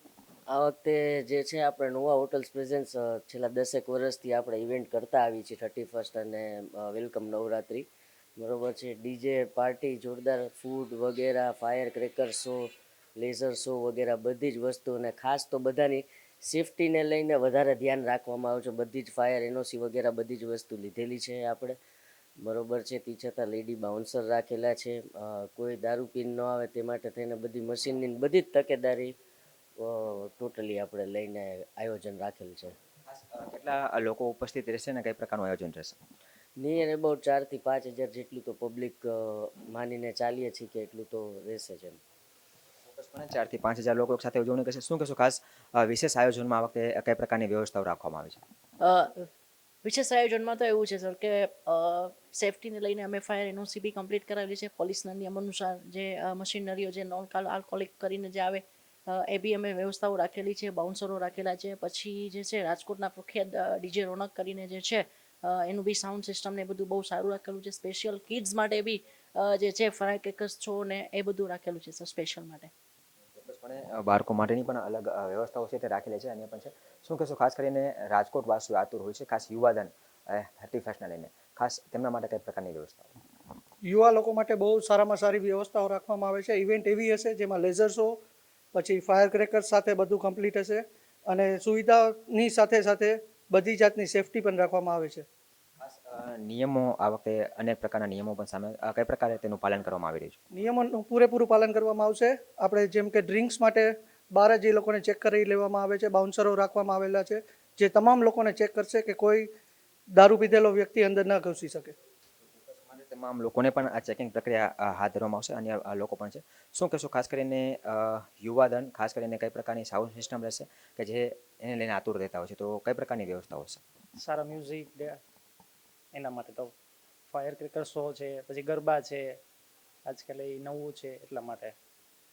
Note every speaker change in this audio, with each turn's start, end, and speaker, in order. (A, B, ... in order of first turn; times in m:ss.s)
0:00.5-0:21.8 A
0:22.4-0:29.1 A
0:29.8-0:32.8 A
0:33.1-0:36.0 B
0:36.6-0:42.0 A
0:42.9-0:48.4 B
0:48.8-0:49.3 C
0:49.8-1:12.7 C
1:13.4-1:23.1 B
1:23.9-1:28.2 D
1:28.8-1:35.3 D
1:35.8-1:40.4 B
1:40.5-1:49.5 D
1:50.2-1:52.0 D
1:52.7-2:03.8 B
2:04.2-2:05.2 E
2:06.1-2:06.7 E
2:07.3-2:09.4 E
2:10.1-2:11.8 E